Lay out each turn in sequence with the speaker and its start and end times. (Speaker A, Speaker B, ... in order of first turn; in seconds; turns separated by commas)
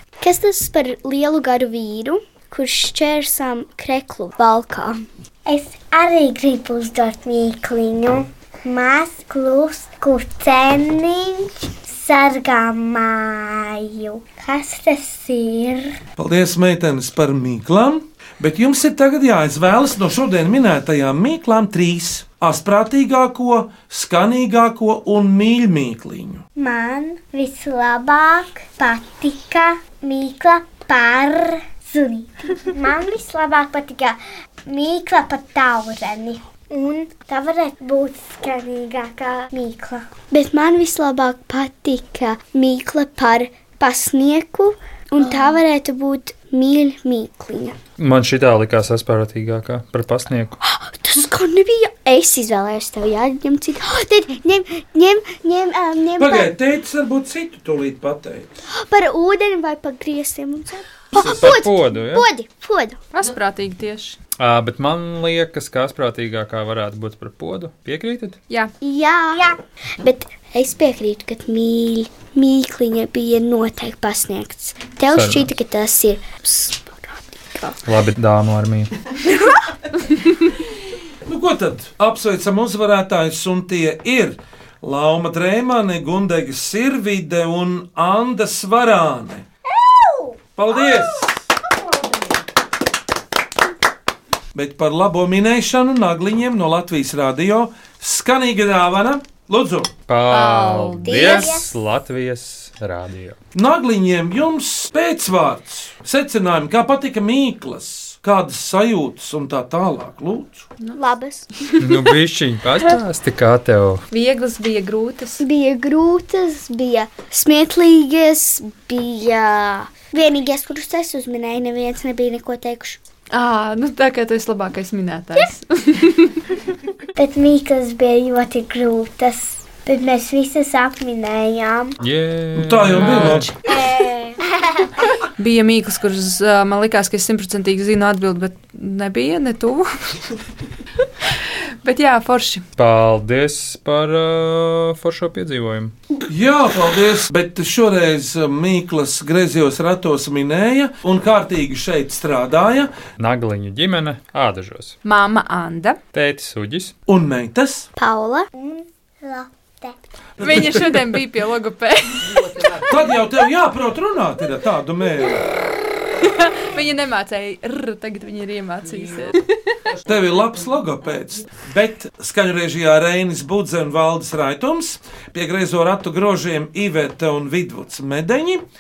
Speaker A: 0.2-5.0, Speaker B: 5.5-16.0, Speaker C: 16.2-26.4, Speaker B: 26.6-40.1, Speaker A: 40.3-47.8, Speaker D: 48.0-50.6, Speaker A: 50.6-56.5, Speaker C: 56.2-58.6, Speaker A: 58.7-63.0, Speaker D: 61.1-62.2, Speaker E: 63.1-64.2, Speaker D: 64.4-68.4, Speaker A: 68.8-77.8, Speaker D: 75.1-75.5, Speaker D: 77.8-78.9, Speaker A: 79.2-79.6, Speaker C: 81.2-89.4, Speaker B: 89.7-92.3, Speaker C: 90.5-91.3, Speaker C: 94.5-99.9, Speaker D: 100.1-103.4, Speaker E: 100.3-101.4, Speaker B: 101.0-101.7, Speaker A: 101.0-101.7, Speaker C: 103.5-110.7, Speaker A: 110.9-111.5, Speaker D: 111.8-114.0, Speaker E: 114.1-115.4, Speaker A: 115.4-123.0, Speaker E: 123.3-126.3, Speaker B: 127.2-131.9, Speaker D: 132.0-133.5, Speaker C: 132.6-133.5, Speaker E: 133.0-133.5, Speaker B: 133.7-134.8, Speaker E: 135.4-139.9, Speaker E: 141.8-142.6, Speaker D: 142.8-145.9, Speaker C: 146.3-152.9, Speaker D: 153.2-154.9, Speaker E: 155.0-156.0, Speaker D: 156.1-156.9, Speaker C: 157.1-157.9, Speaker A: 157.9-158.5, Speaker B: 158.5-160.0, Speaker E: 160.4-162.8, Speaker C: 160.4-160.8, Speaker C: 162.7-165.5, Speaker E: 166.2-169.5, Speaker C: 170.0-178.6